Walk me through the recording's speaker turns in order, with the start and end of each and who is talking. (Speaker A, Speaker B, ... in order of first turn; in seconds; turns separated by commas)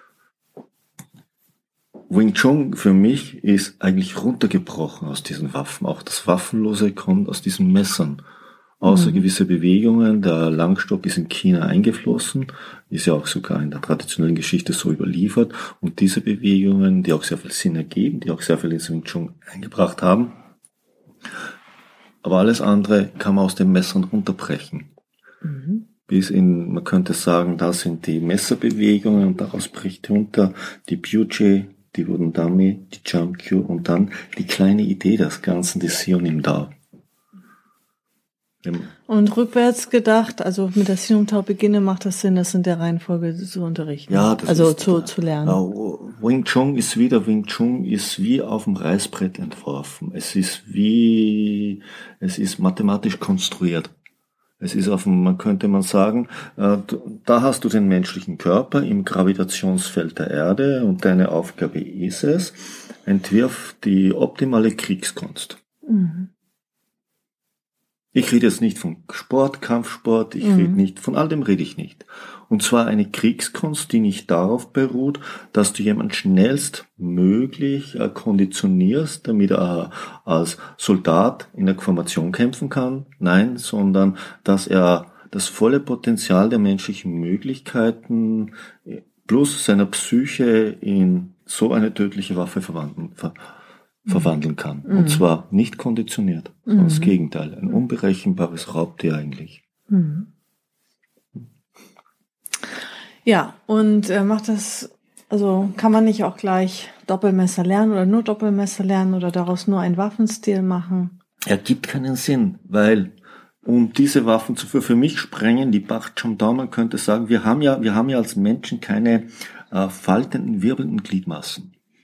Speaker A: 2.1-8.2, Speaker A: 8.8-20.4, Speaker B: 8.8-9.2, Speaker A: 22.2-24.9, Speaker B: 25.4-25.8, Speaker A: 26.1-36.7, Speaker A: 38.6-38.9, Speaker B: 39.1-45.6, Speaker A: 44.1-53.9, Speaker A: 54.6-65.6, Speaker B: 65.8-66.3, Speaker A: 68.1-93.3, Speaker B: 70.4-70.8, Speaker A: 94.0-99.6, Speaker B: 94.8-95.2, Speaker B: 96.7-97.1, Speaker B: 99.9-100.3, Speaker B: 103.2-111.2, Speaker A: 111.4-113.1, Speaker A: 113.6-121.7